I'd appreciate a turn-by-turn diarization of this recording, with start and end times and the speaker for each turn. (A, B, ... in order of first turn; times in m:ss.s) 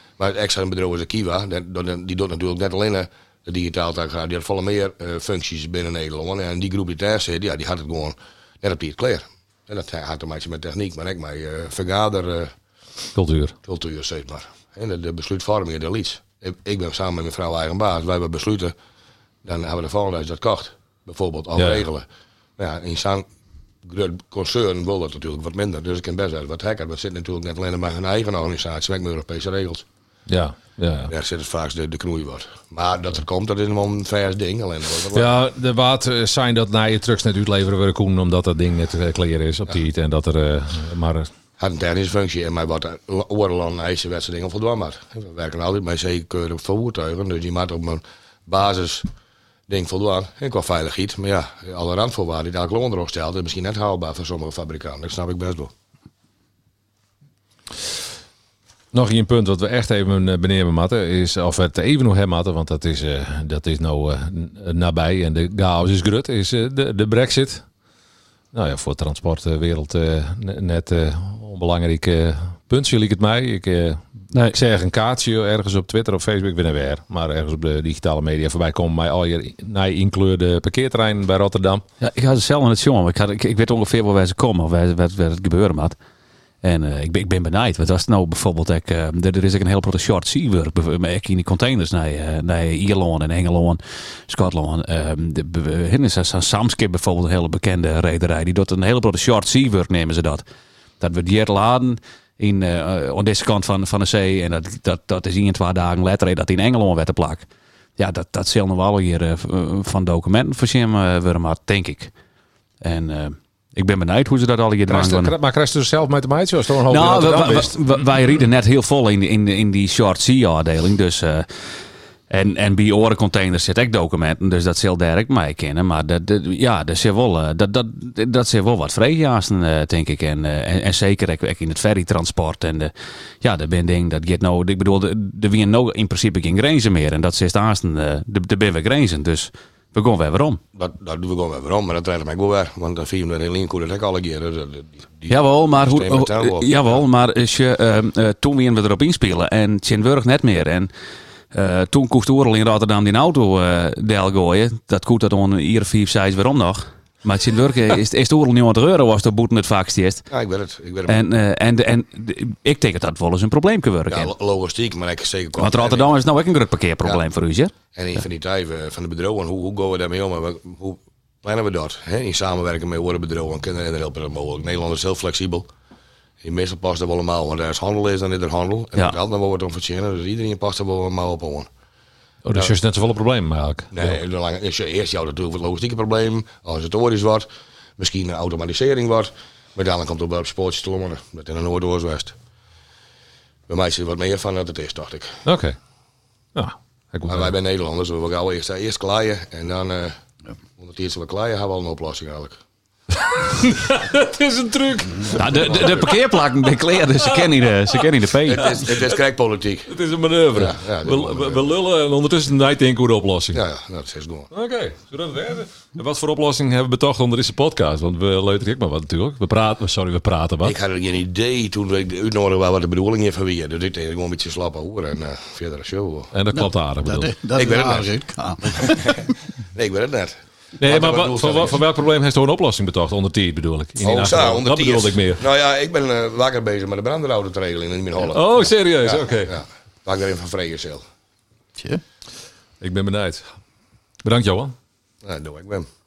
0:00.2-0:12.5 A
0:13.1-0:13.5 B
0:13.6-0:18.7 A
0:19.4-0:22.0 A
0:21.6-0:21.8 B
0:22.6-0:23.2 A
0:23.8-0:29.8 A
0:30.3-0:31.1 B
0:31.1-0:35.3 A
0:35.1-0:41.3 B
0:41.6-0:49.1 A
0:49.7-0:55.7 A
0:58.9-1:07.7 B
1:08.5-1:21.8 B
1:22.0-1:26.0 C
1:26.6-1:40.4 C
1:41.0-1:52.1 C
1:52.8-1:55.3 C
1:54.9-1:57.7 B
1:56.8-2:20.6 C
2:20.7-2:27.0 A
2:25.3-2:30.9 C
2:31.5-2:40.2 C
2:40.3-2:41.2 A
2:41.1-2:44.3 C
2:44.1-2:46.1 A
2:45.6-2:47.7 C
2:47.9-2:55.7 A
2:56.4-3:01.7 A
3:02.4-3:04.2 B
3:03.9-3:07.5 A
3:08.0-3:12.4 A
3:13.7-3:15.4 A
3:15.4-3:15.8 B
3:16.5-3:17.5 B
3:17.3-3:20.1 A
3:20.8-3:22.6 A
3:23.5-3:26.1 B
3:25.3-3:26.2 A
3:25.3-3:28.8 C
3:28.4-3:29.9 A
3:29.9-3:33.6 B
3:30.5-3:31.7 A
3:33.5-3:34.5 A
3:34.5-3:40.7 B
3:40.6-3:46.3 A
3:46.3-3:47.3 B
3:46.5-3:49.3 D
3:47.6-3:48.1 A
3:48.6-3:51.8 A
3:50.8-3:55.4 B
3:54.0-4:01.0 A
3:58.3-3:59.5 B
4:01.8-4:02.0 D
4:02.8-4:03.4 B
4:04.2-4:04.7 B
4:05.2-4:05.9 A